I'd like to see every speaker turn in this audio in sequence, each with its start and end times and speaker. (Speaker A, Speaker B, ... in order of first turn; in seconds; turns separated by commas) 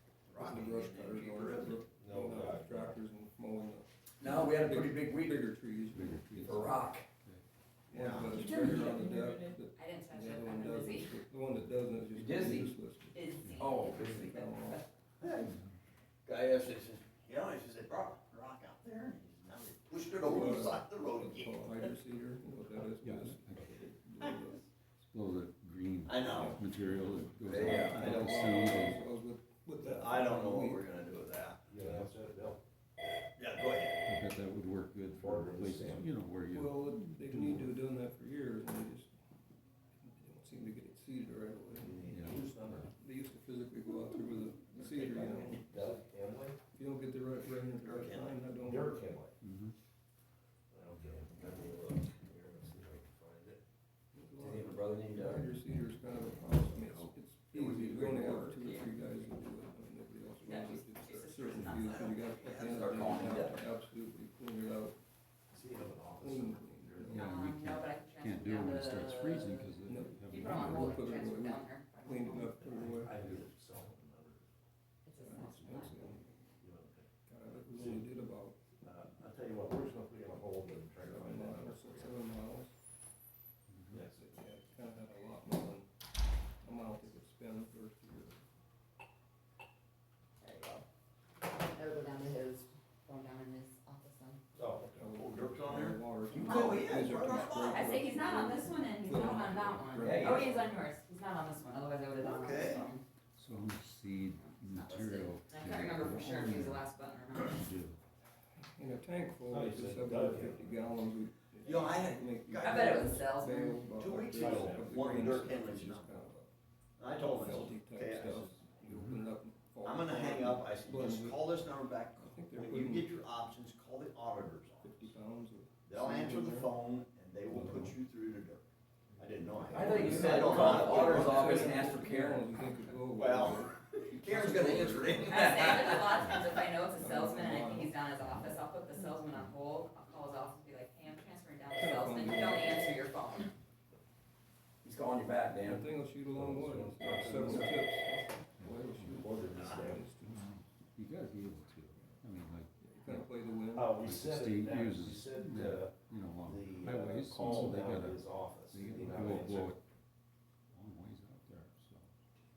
Speaker A: 0.3-1.8, Speaker B: 0.3-6.8, Speaker C: 2.0-3.0, Speaker D: 4.2-5.7, Speaker E: 5.9-7.4, Speaker D: 6.4-7.1, Speaker B: 7.9-14.8, Speaker A: 7.9-8.4, Speaker D: 8.4-9.5, Speaker F: 9.8-11.2, Speaker D: 12.1-12.7, Speaker F: 13.1-13.9, Speaker E: 13.4-13.7, Speaker D: 13.6-14.5, Speaker E: 15.4-15.8, Speaker A: 16.2-21.9, Speaker B: 20.1-24.7, Speaker E: 23.0-23.8, Speaker E: 25.1-29.0, Speaker A: 26.0-26.6, Speaker B: 26.3-26.8, Speaker B: 27.4-30.9, Speaker A: 27.4-28.9, Speaker A: 29.8-31.7, Speaker C: 31.7-32.6, Speaker A: 33.2-34.1, Speaker E: 34.0-37.7, Speaker C: 35.2-36.1, Speaker B: 36.5-39.1, Speaker B: 40.0-42.0, Speaker C: 41.8-42.9, Speaker E: 42.1-42.9, Speaker B: 42.9-46.0, Speaker A: 44.8-45.6, Speaker C: 44.8-46.6, Speaker B: 46.7-49.0, Speaker A: 47.8-48.4, Speaker C: 48.5-49.3, Speaker E: 49.4-49.7, Speaker C: 50.7-53.6, Speaker B: 54.1-65.0, Speaker D: 54.4-55.5, Speaker D: 57.8-58.8, Speaker F: 60.4-62.1, Speaker A: 61.5-63.3, Speaker D: 62.6-63.6, Speaker C: 65.5-67.2, Speaker B: 66.2-67.4, Speaker E: 67.1-71.0, Speaker F: 67.1-69.7, Speaker B: 69.8-73.2, Speaker F: 70.2-72.7, Speaker C: 72.8-74.6, Speaker F: 75.0-76.2, Speaker B: 75.2-76.4, Speaker C: 76.6-77.1, Speaker B: 77.3-78.6, Speaker C: 77.7-78.0, Speaker C: 78.8-82.2, Speaker B: 81.0-82.7, Speaker E: 83.7-84.1, Speaker C: 83.9-84.4, Speaker B: 84.1-85.9, Speaker B: 86.6-88.4, Speaker F: 90.4-90.8, Speaker F: 91.4-94.4, Speaker C: 94.5-95.1, Speaker B: 94.8-100.8, Speaker A: 95.0-97.9, Speaker F: 97.2-103.0, Speaker D: 100.0-100.4, Speaker A: 102.2-102.9, Speaker E: 103.4-108.0, Speaker F: 104.3-107.7, Speaker B: 108.8-116.5, Speaker C: 109.5-110.8, Speaker A: 111.6-113.2, Speaker F: 112.6-113.8, Speaker A: 113.9-116.2, Speaker C: 114.3-115.0, Speaker A: 117.0-119.0, Speaker B: 117.2-123.2, Speaker E: 118.9-119.2, Speaker A: 119.8-125.1, Speaker B: 124.8-126.7, Speaker A: 125.9-128.6, Speaker E: 127.5-127.9, Speaker A: 129.2-131.7, Speaker B: 129.7-138.0, Speaker D: 129.7-132.4, Speaker C: 130.0-130.4, Speaker C: 131.1-131.4, Speaker A: 133.1-135.9, Speaker F: 135.2-143.5, Speaker D: 135.3-136.1, Speaker B: 141.7-142.9, Speaker D: 144.8-145.9, Speaker B: 145.6-148.1, Speaker C: 146.3-147.8, Speaker F: 148.0-148.4, Speaker E: 148.6-149.2, Speaker B: 148.6-150.3, Speaker C: 149.1-150.1, Speaker A: 149.5-149.8, Speaker E: 150.2-153.3, Speaker B: 152.8-154.0, Speaker C: 153.7-159.7, Speaker E: 153.9-159.8, Speaker E: 160.7-162.1